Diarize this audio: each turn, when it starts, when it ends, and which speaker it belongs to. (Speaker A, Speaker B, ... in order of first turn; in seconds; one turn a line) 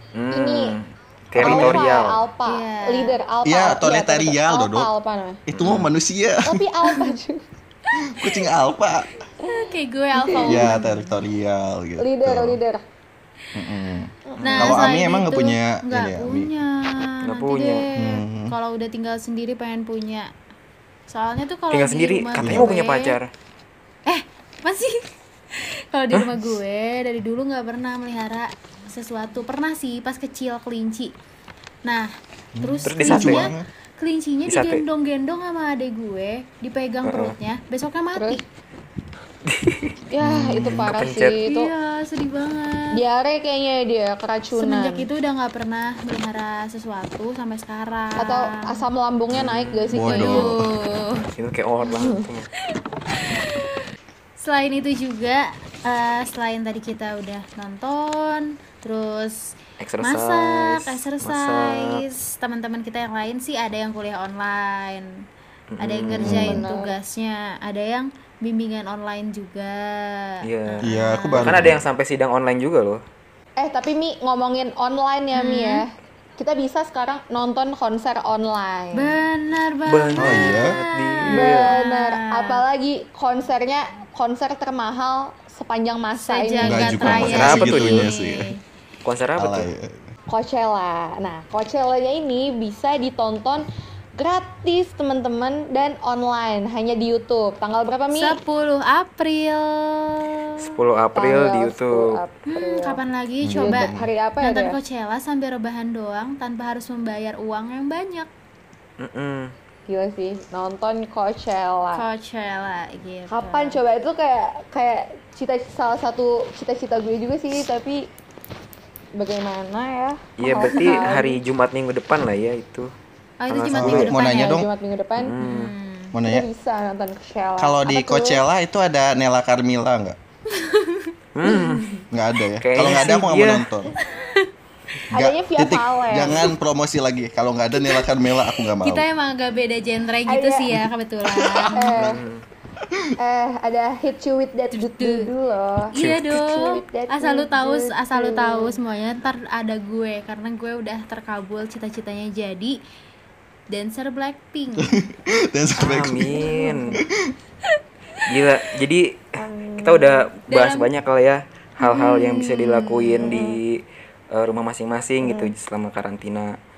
Speaker A: 0.1-2.3
Speaker B: 0.3-0.8
Speaker C: 1.4-1.9
Speaker B: 1.4-5.4
Speaker D: 2.5-3.2
Speaker C: 3.4-4.9
Speaker C: 5.5-6.7
Speaker A: 5.5-5.9
Speaker B: 6.4-7.4
Speaker C: 8.0-9.1
Speaker D: 9.4-11.2
Speaker B: 10.2-10.8
Speaker C: 10.4-12.6
Speaker B: 12.0-12.8
Speaker C: 13.6-16.5
Speaker B: 14.3-14.9
Speaker D: 14.4-20.3
Speaker A: 17.2-17.9
Speaker C: 17.9-18.5
Speaker D: 21.1-23.2
Speaker A: 21.7-23.3
Speaker C: 22.4-22.7
Speaker D: 24.1-31.1
Speaker A: 26.1-26.4
Speaker D: 31.9-38.4
Speaker C: 32.6-33.7
Speaker A: 32.9-33.5
Speaker A: 34.5-34.8
Speaker A: 37.0-37.4
Speaker B: 38.2-38.4
Speaker A: 39.5-39.9
Speaker B: 40.1-41.7
Speaker C: 40.2-40.9
Speaker A: 40.8-41.4
Speaker D: 41.4-43.0
Speaker B: 42.9-45.1
Speaker D: 44.5-48.8
Speaker B: 48.2-50.6
Speaker A: 49.3-49.9
Speaker C: 49.9-50.7
Speaker D: 50.1-51.3
Speaker A: 51.4-52.5
Speaker B: 51.8-52.2
Speaker D: 53.3-53.8
Speaker D: 54.4-65.1
Speaker A: 59.8-62.0
Speaker A: 65.7-66.4
Speaker D: 65.8-71.7
Speaker C: 66.2-66.6
Speaker B: 66.2-67.0
Speaker A: 70.4-73.0
Speaker C: 70.8-71.8
Speaker B: 73.6-79.2
Speaker D: 75.3-75.8
Speaker D: 79.0-82.6
Speaker A: 79.9-81.8
Speaker C: 80.2-80.8
Speaker B: 81.3-87.6
Speaker D: 86.2-88.6
Speaker C: 86.6-88.5
Speaker A: 87.1-88.1
Speaker A: 89.0-89.7
Speaker C: 89.4-90.1
Speaker B: 90.3-93.7
Speaker B: 94.2-98.4
Speaker D: 98.1-100.6
Speaker A: 100.6-102.2
Speaker B: 101.2-103.0
Speaker D: 102.5-108.3
Speaker C: 103.4-104.1
Speaker B: 103.5-104.8
Speaker A: 109.0-109.5
Speaker B: 109.9-112.0
Speaker D: 111.9-113.8
Speaker B: 113.3-118.1
Speaker B: 119.2-121.4
Speaker A: 120.4-122.9
Speaker D: 123.4-124.6
Speaker A: 123.5-124.1
Speaker C: 123.7-124.7
Speaker B: 124.2-125.3
Speaker A: 125.2-125.7
Speaker D: 125.4-126.1
Speaker C: 126.1-126.5
Speaker B: 126.2-128.4
Speaker C: 127.6-130.2
Speaker D: 130.6-131.1
Speaker A: 131.3-132.0
Speaker B: 131.4-132.0
Speaker C: 132.1-133.9
Speaker A: 132.6-133.7
Speaker D: 134.2-134.5
Speaker B: 135.1-136.5
Speaker C: 135.1-139.1
Speaker D: 138.8-141.9
Speaker B: 140.3-140.8
Speaker C: 141.4-142.2
Speaker B: 141.6-142.2
Speaker A: 141.9-142.4
Speaker B: 143.2-148.8
Speaker D: 144.8-145.3
Speaker D: 145.9-152.8
Speaker A: 146.0-146.3
Speaker D: 153.7-155.0
Speaker C: 154.8-156.5
Speaker A: 155.8-157.0
Speaker B: 156.3-157.0
Speaker A: 158.3-166.6
Speaker B: 159.4-160.9
Speaker B: 161.8-163.6
Speaker D: 161.9-162.3
Speaker B: 165.2-165.5